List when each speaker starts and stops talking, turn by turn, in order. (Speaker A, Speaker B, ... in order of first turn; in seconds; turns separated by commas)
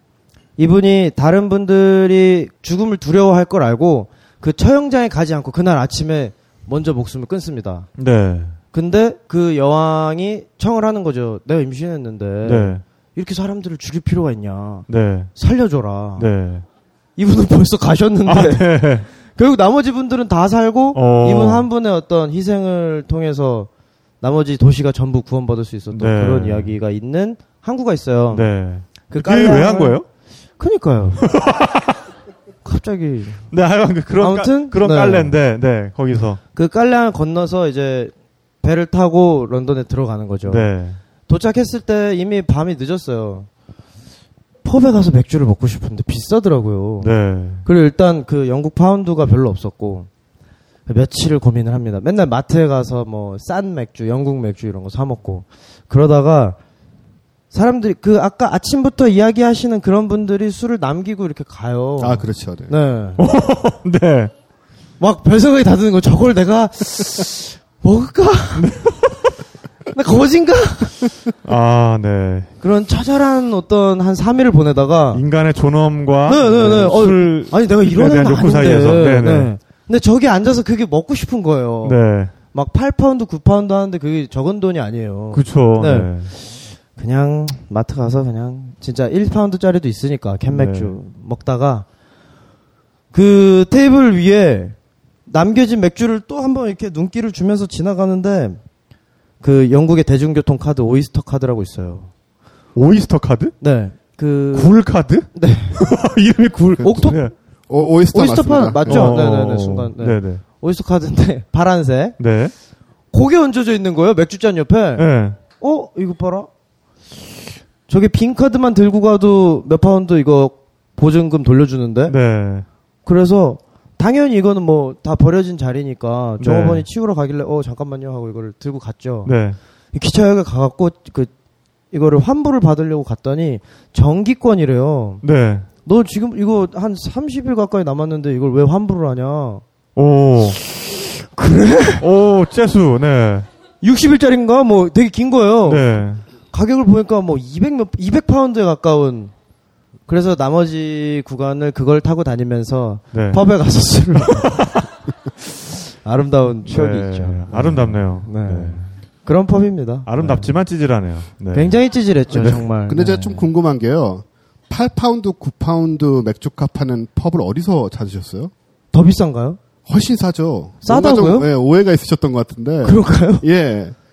Speaker A: 0.6-7.9, Speaker B: 8.0-8.6, Speaker A: 8.7-16.3, Speaker B: 12.4-12.8, Speaker B: 14.9-15.3, Speaker B: 16.2-16.6, Speaker A: 17.2-18.7, Speaker B: 18.3-19.1, Speaker A: 19.4-23.7, Speaker B: 20.9-21.7, Speaker A: 24.2-28.5, Speaker B: 25.9-26.7, Speaker B: 28.3-30.1, Speaker A: 29.1-30.0, Speaker A: 30.6-31.2, Speaker B: 31.2-32.0, Speaker A: 32.6-33.4, Speaker B: 33.5-36.4, Speaker A: 34.2-35.4, Speaker A: 36.5-40.7, Speaker B: 40.5-41.0, Speaker A: 41.3-43.5, Speaker A: 44.6-47.1, Speaker B: 47.0-47.6, Speaker A: 47.6-50.1, Speaker A: 50.9-56.6, Speaker A: 57.5-63.2, Speaker C: 62.0-62.7, Speaker B: 63.2-64.3, Speaker A: 65.0-68.7, Speaker B: 68.5-69.3, Speaker A: 69.9-71.0, Speaker B: 71.5-72.5, Speaker A: 72.6-75.2, Speaker B: 75.1-79.5, Speaker A: 76.3-82.0, Speaker B: 81.8-82.3, Speaker A: 82.5-91.8, Speaker B: 85.3-86.3, Speaker B: 90.5-90.9, Speaker A: 93.1-94.8, Speaker A: 95.3-98.6, Speaker A: 99.4-102.1, Speaker B: 102.8-103.6, Speaker A: 103.6-104.8, Speaker B: 104.5-107.3, Speaker A: 105.3-105.8, Speaker C: 106.8-107.1, Speaker A: 106.8-107.3, Speaker C: 107.7-109.2, Speaker A: 108.1-112.2, Speaker B: 108.9-110.4, Speaker B: 112.2-112.5, Speaker A: 113.1-115.1, Speaker B: 115.0-115.4, Speaker A: 115.6-116.5, Speaker A: 117.9-122.2, Speaker B: 122.1-122.7, Speaker A: 123.1-129.3, Speaker B: 126.4-126.9, Speaker B: 129.2-129.6, Speaker A: 129.9-131.3, Speaker A: 131.9-135.2, Speaker B: 135.2-135.7, Speaker A: 135.8-139.6, Speaker B: 140.0-140.6, Speaker A: 140.7-142.0, Speaker B: 142.0-143.5, Speaker A: 143.8-145.9, Speaker B: 145.7-146.2, Speaker A: 146.5-149.3, Speaker A: 150.1-154.6, Speaker B: 153.1-153.4, Speaker B: 154.2-154.9, Speaker A: 156.0-160.6, Speaker B: 156.7-158.8, Speaker B: 160.1-161.8, Speaker A: 161.5-163.5, Speaker B: 162.3-162.7, Speaker C: 162.9-168.5, Speaker A: 168.9-169.6, Speaker C: 169.9-174.0, Speaker A: 170.8-171.5, Speaker A: 172.8-173.4